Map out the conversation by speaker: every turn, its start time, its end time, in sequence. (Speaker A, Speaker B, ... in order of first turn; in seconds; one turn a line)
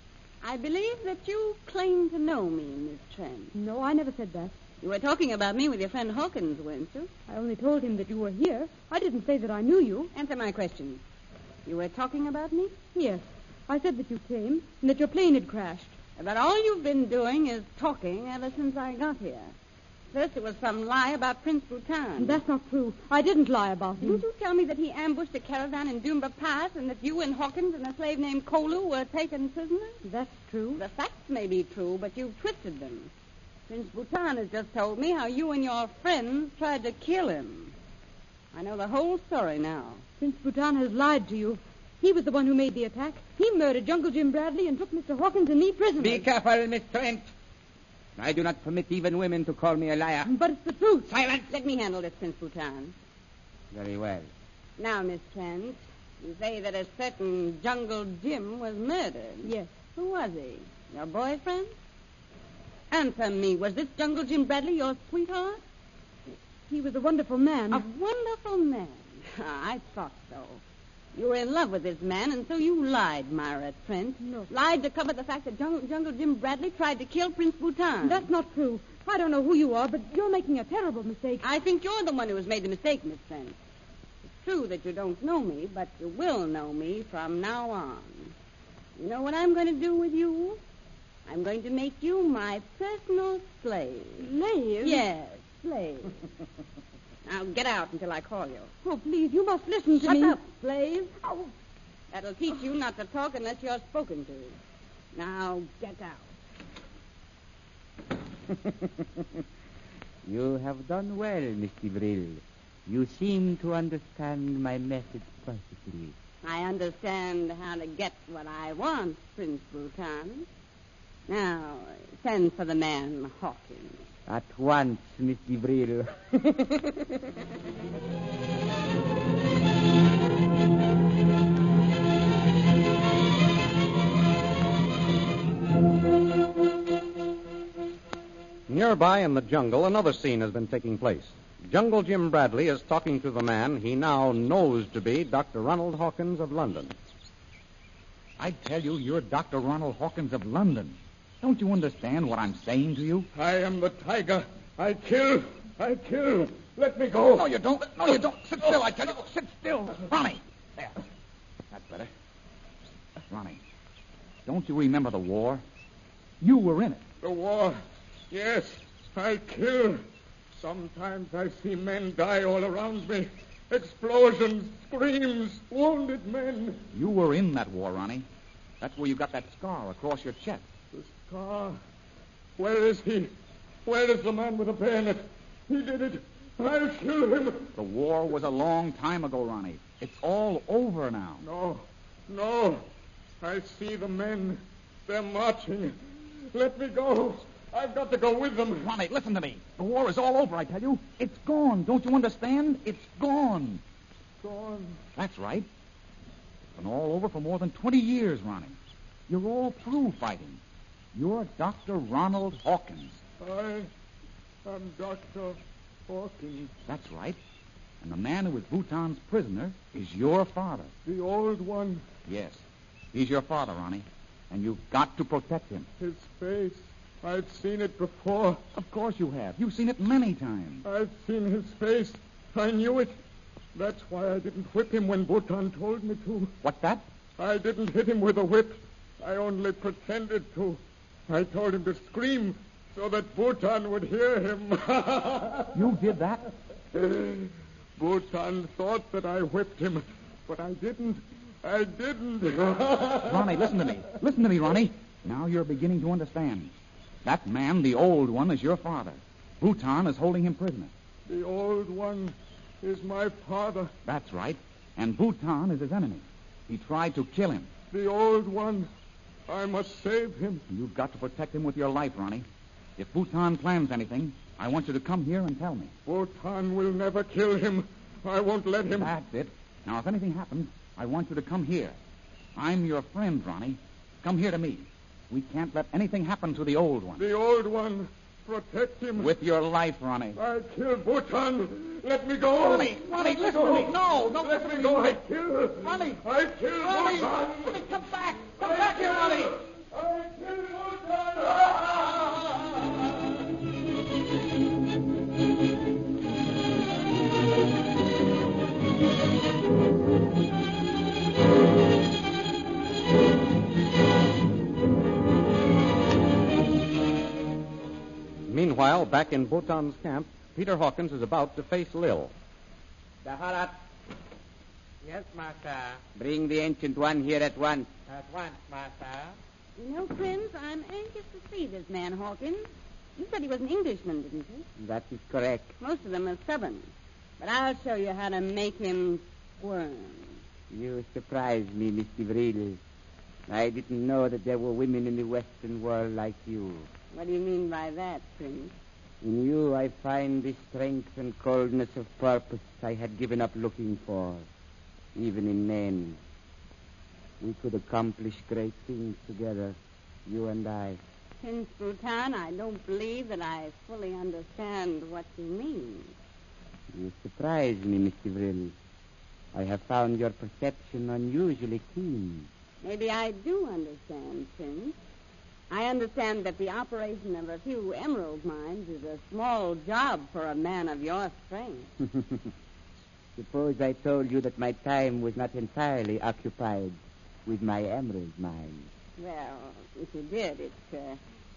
Speaker A: 0.4-3.5
Speaker B: 3.5-4.5
Speaker A: 4.8-7.1
Speaker B: 7.3-10.1
Speaker A: 10.1-11.0
Speaker A: 11.7-12.8
Speaker B: 12.9-15.9
Speaker A: 16.2-19.5
Speaker A: 20.1-22.4
Speaker B: 22.2-24.2
Speaker A: 24.0-30.0
Speaker B: 30.0-30.8
Speaker A: 30.8-33.1
Speaker A: 33.7-37.7
Speaker A: 38.5-40.0
Speaker B: 40.2-46.2
Speaker C: 46.0-47.3
Speaker C: 48.2-50.3
Speaker B: 50.2-51.1
Speaker C: 51.1-51.5
Speaker A: 51.5-52.9
Speaker C: 53.7-54.3
Speaker A: 54.8-61.7
Speaker B: 59.4-59.8
Speaker A: 62.9-65.6
Speaker B: 66.7-67.8
Speaker A: 67.7-70.6
Speaker A: 71.1-78.2
Speaker B: 74.2-74.5
Speaker B: 78.0-81.5
Speaker A: 81.4-83.5
Speaker A: 84.4-88.3
Speaker A: 89.0-90.6
Speaker A: 91.3-94.2
Speaker B: 94.2-95.0
Speaker A: 94.8-96.2
Speaker A: 97.2-98.7
Speaker B: 98.8-100.4
Speaker A: 99.9-101.5
Speaker A: 102.1-104.6
Speaker A: 105.1-106.3
Speaker C: 110.2-116.1
Speaker A: 116.4-120.5
Speaker A: 121.3-124.0
Speaker C: 124.3-126.6
Speaker D: 138.7-146.9
Speaker E: 148.4-153.3
Speaker F: 153.3-157.5
Speaker E: 157.2-160.9
Speaker E: 161.7-162.1
Speaker E: 163.3-163.6
Speaker E: 164.4-165.6
Speaker E: 166.4-167.0
Speaker F: 167.2-170.0
Speaker F: 170.6-176.8
Speaker E: 176.9-178.3
Speaker E: 178.8-180.6
Speaker F: 180.9-181.8
Speaker F: 182.6-183.3
Speaker F: 183.8-187.7
Speaker E: 187.7-191.4
Speaker F: 191.4-192.8
Speaker F: 193.4-195.9
Speaker F: 196.5-198.9
Speaker E: 198.8-203.8
Speaker F: 204.4-205.0
Speaker E: 205.2-205.7
Speaker E: 206.8-208.8
Speaker E: 209.3-210.6
Speaker E: 211.1-213.2
Speaker F: 213.4-213.9
Speaker F: 214.7-216.7
Speaker E: 216.8-217.4
Speaker E: 218.0-220.9
Speaker F: 221.1-222.0
Speaker E: 222.3-225.9
Speaker F: 226.0-228.6
Speaker E: 228.8-230.8
Speaker F: 230.8-233.1
Speaker F: 233.8-236.5
Speaker E: 236.6-237.1
Speaker F: 237.4-245.8
Speaker E: 245.7-246.5
Speaker F: 246.9-253.8
Speaker E: 253.2-260.9
Speaker F: 261.3-263.9
Speaker E: 264.1-267.7
Speaker F: 267.9-268.9
Speaker F: 269.5-270.6
Speaker E: 270.7-272.5
Speaker E: 273.0-275.9
Speaker F: 276.1-279.1
Speaker E: 278.9-282.0
Speaker E: 282.6-287.3
Speaker F: 287.2-289.3
Speaker E: 289.1-290.4
Speaker F: 290.4-297.6
Speaker E: 292.5-295.1
Speaker E: 295.7-296.2
Speaker E: 296.8-299.6
Speaker F: 298.6-299.1
Speaker F: 299.9-301.7
Speaker D: 318.5-322.3
Speaker C: 323.3-323.6
Speaker G: 325.0-326.0
Speaker C: 326.1-327.9
Speaker G: 328.1-329.4
Speaker A: 329.8-332.6
Speaker A: 333.2-334.6
Speaker C: 334.8-335.8
Speaker A: 335.8-340.4
Speaker C: 340.7-342.8
Speaker C: 343.5-346.9
Speaker A: 347.1-348.7
Speaker C: 349.2-354.5
Speaker C: 355.1-356.2
Speaker C: 357.4-361.0
Speaker A: 361.4-366.1
Speaker C: 366.9-368.7
Speaker C: 369.5-372.5
Speaker A: 372.8-374.9
Speaker A: 375.7-381.9
Speaker C: 383.4-388.9
Speaker A: 389.2-391.2